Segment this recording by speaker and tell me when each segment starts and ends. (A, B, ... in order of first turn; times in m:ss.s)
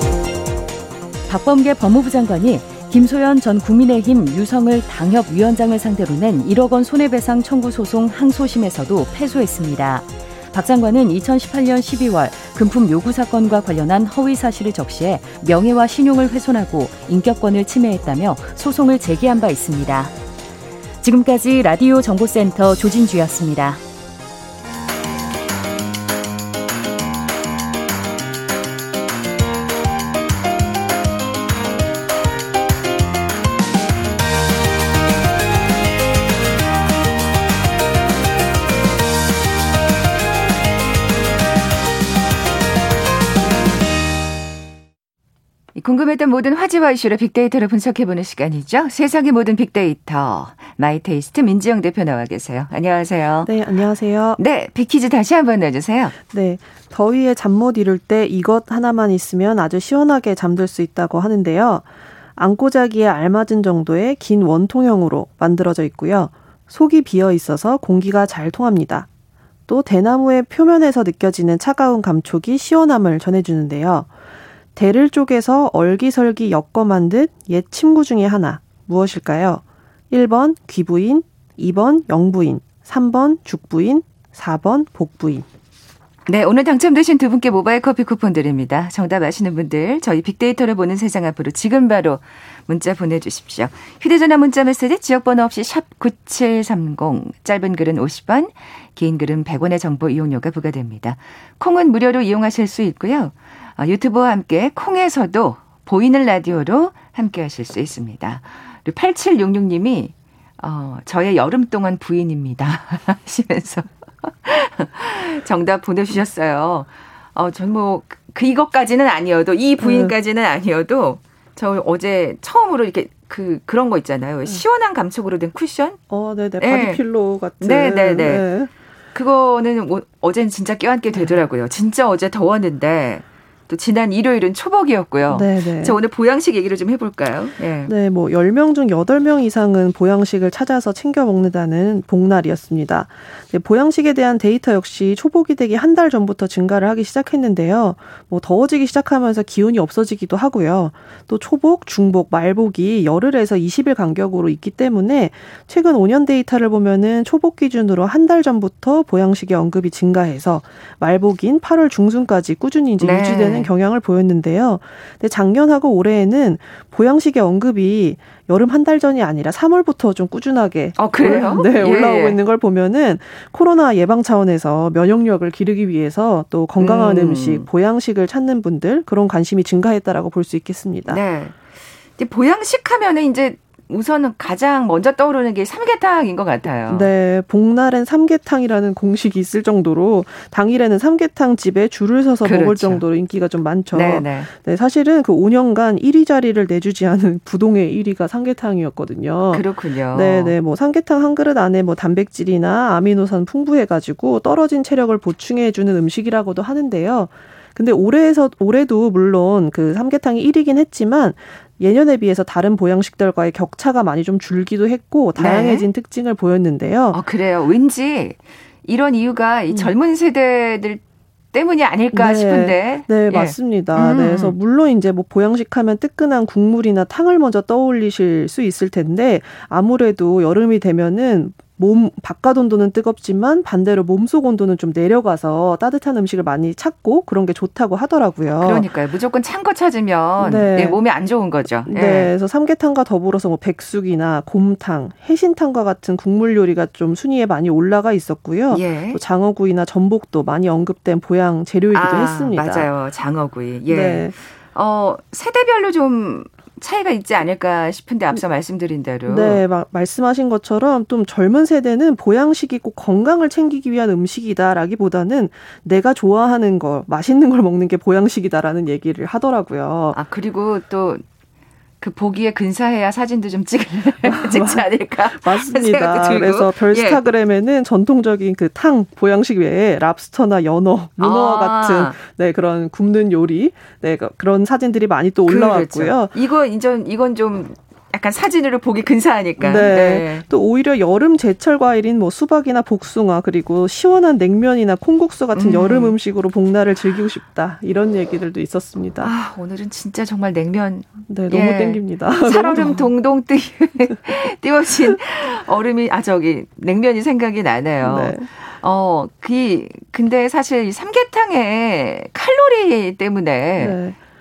0:01.3-0:20.1 A
0:21.0-0:23.8 A
0:45.7-0:53.5 B
0:53.4-0:54.4 C
0:54.4-0:56.1 B
0:56.3-1:09.1 C
1:09.7-1:14.1 C
1:14.8-1:25.4 C
1:26.3-2:06.0 B
1:59.8-2:00.1 C
2:06.1-2:08.7 C
2:06.6-2:07.0 B
2:07.6-2:08.4 B
2:09.1-2:17.9 B
2:15.3-2:16.0 C
2:17.9-3:01.2 C
2:43.0-2:43.7 B
2:51.0-2:52.4 B
2:56.8-2:57.6 B
3:01.1-3:01.6 B
3:02.2-3:07.1 B
3:06.9-3:37.2 C
3:12.4-3:13.0 B
3:13.9-3:14.5 B
3:19.5-3:20.5 B
3:35.4-3:35.8 B
3:37.1-3:41.0 B
3:41.5-3:44.5 B
3:42.1-3:58.9 C
3:58.6-4:02.3 B
4:00.4-4:01.0 C
4:01.8-4:12.9 C
4:08.7-4:09.2 B
4:11.9-4:19.6 B
4:13.9-4:14.3 C
4:19.3-4:30.2 C
4:30.1-4:31.2 B
4:32.0-4:37.2 B
4:34.2-4:46.3 C
4:41.2-4:42.1 B
4:45.4-4:50.4 B
4:49.6-4:59.3 C
4:55.5-4:56.2 B
4:59.2-5:14.0 B
5:01.3-5:03.1 C
5:08.0-5:08.5 C
5:13.8-5:14.2 C